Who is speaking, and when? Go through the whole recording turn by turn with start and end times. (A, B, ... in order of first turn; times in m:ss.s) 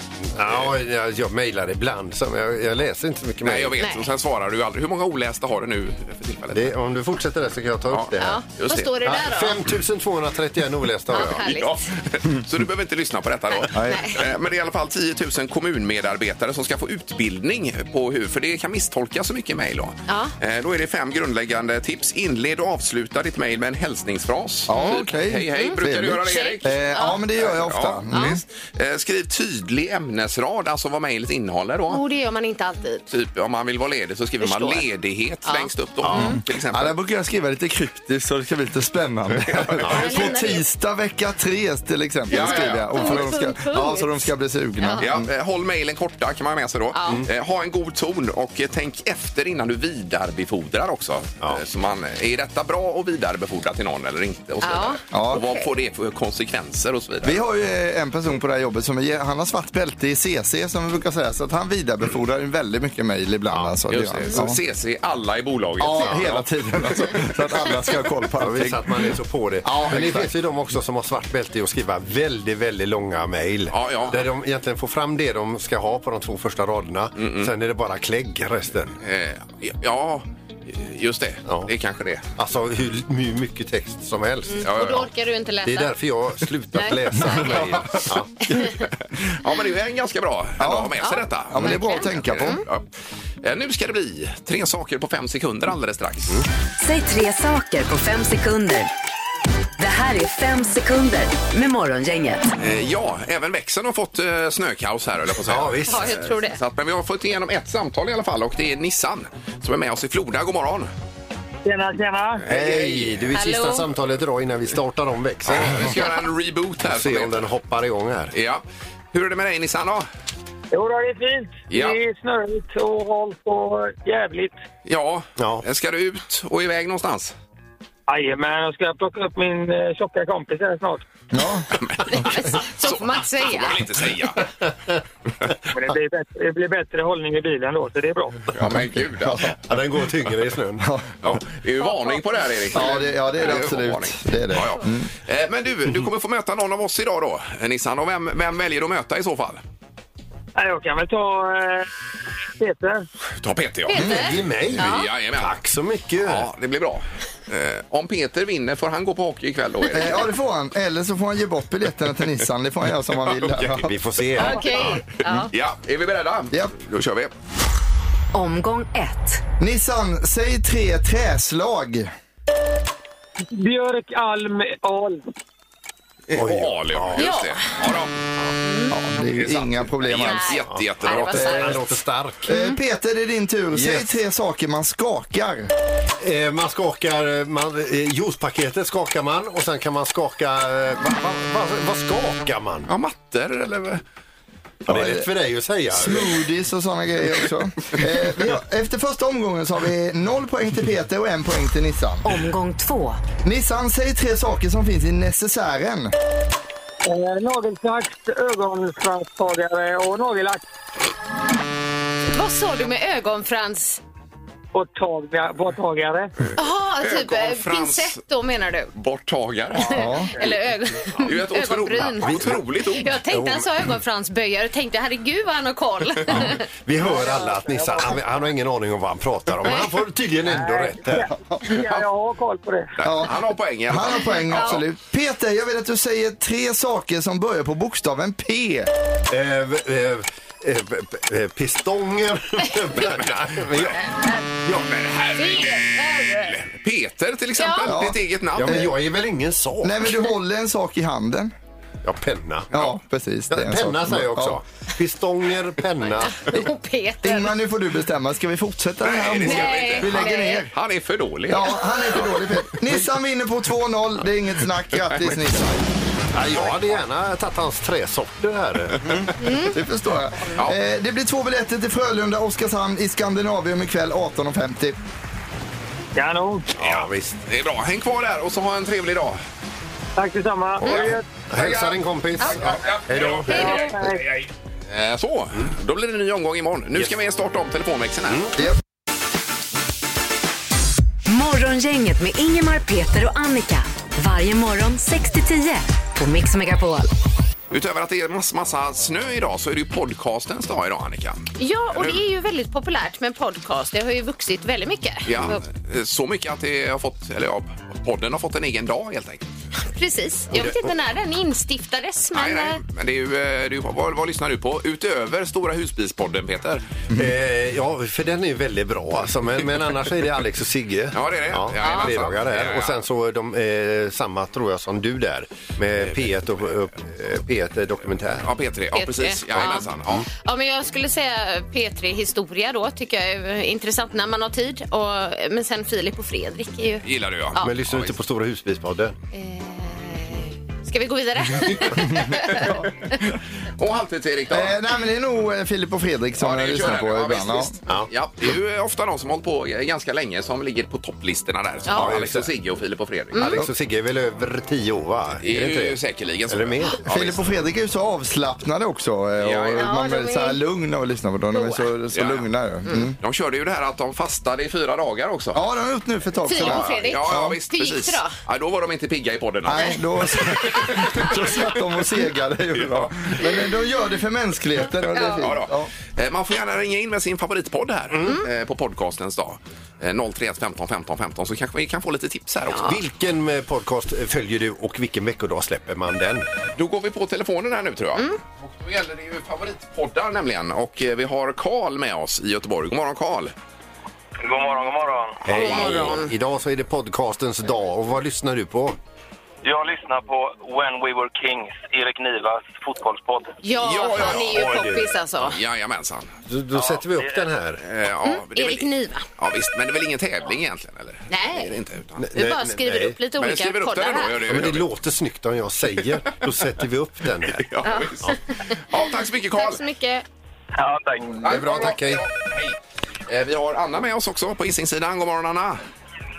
0:00.4-0:03.8 A
0:03.4-0:06.8 B
0:03.8-0:04.0 C
0:06.5-0:08.4 A
0:07.9-0:08.9 B
0:08.2-0:09.6 C
0:09.0-0:11.4 A
0:11.1-0:11.8 C
0:11.1-0:32.0 B
0:13.6-0:14.2 C
0:13.7-0:14.1 D
0:20.1-0:20.3 C
0:24.7-0:28.4 D
0:24.7-0:25.0 C
0:26.2-0:27.2 C
0:28.1-0:28.4 C
0:31.9-0:33.0 C
0:33.1-0:37.0 B
0:34.4-0:34.9 C
0:35.4-0:36.4 C
0:36.0-0:36.3 A
0:36.1-0:45.3 D
0:39.5-0:40.2 B
0:39.8-0:40.2 A
0:39.9-0:40.6 C
0:42.3-0:43.3 B
0:42.3-0:44.3 C
0:45.0-0:57.4 B
0:47.0-0:47.2 C
0:54.6-0:55.7 C
0:55.1-0:55.4 D
0:57.2-1:04.6 D
1:03.5-1:03.8 A
1:03.9-1:07.4 B
1:05.8-1:09.1 D
1:08.4-1:19.0 A
1:09.6-1:10.3 D
1:13.7-1:14.3 B
1:17.2-1:17.5 B
1:19.0-1:22.3 B
1:22.4-1:24.6 A
1:24.5-1:25.9 C
1:24.6-1:25.1 B
1:25.6-1:28.3 A
1:26.7-1:27.3 C
1:27.3-1:28.1 B
1:29.3-1:32.8 B
1:30.6-1:32.6 D
1:31.0-1:32.6 C
1:33.4-1:36.4 B
1:36.8-1:38.9 E
1:39.8-1:42.4 E
1:42.6-1:50.9 B
1:45.4-1:46.2 A
1:45.9-1:46.6 C
1:51.6-1:52.4 F
1:52.5-1:53.3 B
1:52.5-1:56.0 A
1:53.3-1:53.8 C
1:55.5-1:57.4 B
1:56.8-1:58.3 A
1:58.3-2:00.1 B
2:00.7-2:04.6 F
2:01.7-2:02.0 B
2:04.9-2:07.3 B
2:05.4-2:05.6 A
2:08.1-2:11.0 F
2:11.3-2:11.7 D
2:11.8-2:14.5 B
2:12.1-2:13.8 C
2:15.7-2:18.5 F
2:18.5-2:19.6 B
2:19.6-2:21.3 A
2:20.8-2:21.3 D
2:21.2-2:29.6 B
2:22.7-2:25.1 D
2:30.6-2:31.9 F
2:32.6-2:33.1 F
2:33.4-2:35.6 B
2:33.9-2:35.1 C
2:34.0-2:36.5 A
2:36.2-2:40.3 B
2:39.9-2:43.9 D
2:43.3-2:43.8 B
2:43.8-2:45.0 A
2:44.4-2:45.5 C
2:44.8-2:47.3 B
2:48.3-2:49.4 E
2:49.6-2:52.1 D
2:53.5-2:55.3 F
2:56.3-2:58.2 B
2:56.3-2:57.3 A
2:57.2-2:57.8 C
2:58.6-2:59.0 C
2:58.9-3:00.6 D
2:59.3-3:01.8 B
3:00.2-3:01.8 C
3:01.0-3:02.5 A
3:02.5-3:05.7 D
3:02.5-3:02.8 C
3:03.7-3:04.1 A
3:06.2-3:12.9 A
3:12.9-3:14.0 B
3:14.9-3:15.3 D
3:14.9-3:16.3 A
3:15.9-3:22.4 D
3:22.2-3:23.2 E
3:23.4-3:26.1 D
3:27.0-3:30.6 F
3:32.3-3:34.0 C
3:34.7-3:36.3 F
3:36.6-3:38.9 C
3:37.0-3:38.2 B
3:39.0-3:40.5 B
3:39.8-3:42.4 C
3:39.9-3:40.3 D
3:41.2-3:43.2 B
3:42.2-3:42.6 A
3:43.0-3:46.6 C
3:43.3-3:43.7 A
3:46.3-3:51.3 A
3:47.0-3:48.2 F
3:50.5-3:53.0 F
3:53.0-3:54.8 B
3:53.0-3:53.3 D
3:53.9-3:58.9 D
3:59.3-4:04.8 A
4:03.0-4:04.0 B
4:04.7-4:08.9 B
4:05.4-4:06.5 C
4:07.6-4:08.0 C
4:07.8-4:08.9 D
4:08.6-4:10.1 A
4:09.8-4:11.5 D
4:12.0-4:12.7 A
4:12.7-4:14.6 D
4:13.5-4:16.5 A
4:16.2-4:17.5 C
4:17.2-4:20.8 D
4:19.0-4:22.5 B
4:19.4-4:20.6 C
4:21.5-4:25.8 D
4:26.3-4:29.0 A
4:29.0-4:35.0 D
4:29.4-4:29.8 C
4:36.2-4:36.7 F
4:36.8-4:37.4 A
4:36.8-4:39.4 B
4:40.2-4:41.3 F
4:40.9-4:43.8 A
4:41.6-4:41.9 B
4:42.5-4:48.5 B
4:43.5-4:43.9 C
4:43.5-4:44.2 F
4:51.3-4:57.1 E
4:57.7-5:02.2 B
5:01.6-5:05.6 C
5:05.3-5:09.5 B
5:09.8-5:12.8 C
5:12.3-5:16.8 B
5:17.1-5:28.5 A
5:21.1-5:23.0 B
5:21.8-5:22.2 C
5:28.4-5:30.3 B
5:28.9-5:37.7 C
5:29.6-5:30.3 A
5:37.0-5:38.2 B
5:37.6-5:39.2 A
5:39.3-5:42.8 C
5:41.8-5:44.8 B
5:44.5-5:47.8 D
5:46.4-5:53.5 B
5:51.9-5:52.2 C
5:52.0-5:52.5 A
5:53.3-5:53.6 C
5:53.4-5:56.0 A
5:55.4-5:57.6 B
5:56.5-5:57.0 A
5:57.1-6:03.2 D
5:59.4-5:59.9 B
5:59.8-6:00.6 C
6:01.5-6:01.9 C
6:02.1-6:02.5 B
6:03.2-6:05.6 B
6:05.5-6:07.6 D
6:06.5-6:08.4 C
6:06.6-6:11.4 B
6:09.6-6:15.9 D
6:15.1-6:15.5 C
6:15.4-6:23.0 B
6:18.1-6:18.4 A
6:22.7-6:23.0 C
6:22.8-6:26.4 A
6:26.8-6:33.5 B
6:34.4-6:35.4 G
6:35.4-6:39.0 A
6:35.5-6:36.3 C
6:35.6-6:36.2 B
6:39.6-6:43.6 G
6:43.6-6:45.6 C
6:43.8-6:44.7 B
6:44.2-6:45.1 A
6:45.4-6:46.3 B
6:46.5-6:47.8 A
6:46.7-6:47.5 G
6:47.8-6:52.3 B
6:48.2-6:49.2 C
6:51.3-6:51.7 C
6:52.2-6:53.2 A
6:52.3-6:54.4 C
6:53.4-6:54.9 B
6:54.5-6:57.7 A
6:57.5-6:59.8 B
6:57.8-6:58.8 C
6:59.6-7:00.2 C
7:00.8-7:01.5 G
7:01.4-7:02.2 A
7:01.4-7:02.8 B
7:03.3-7:05.8 B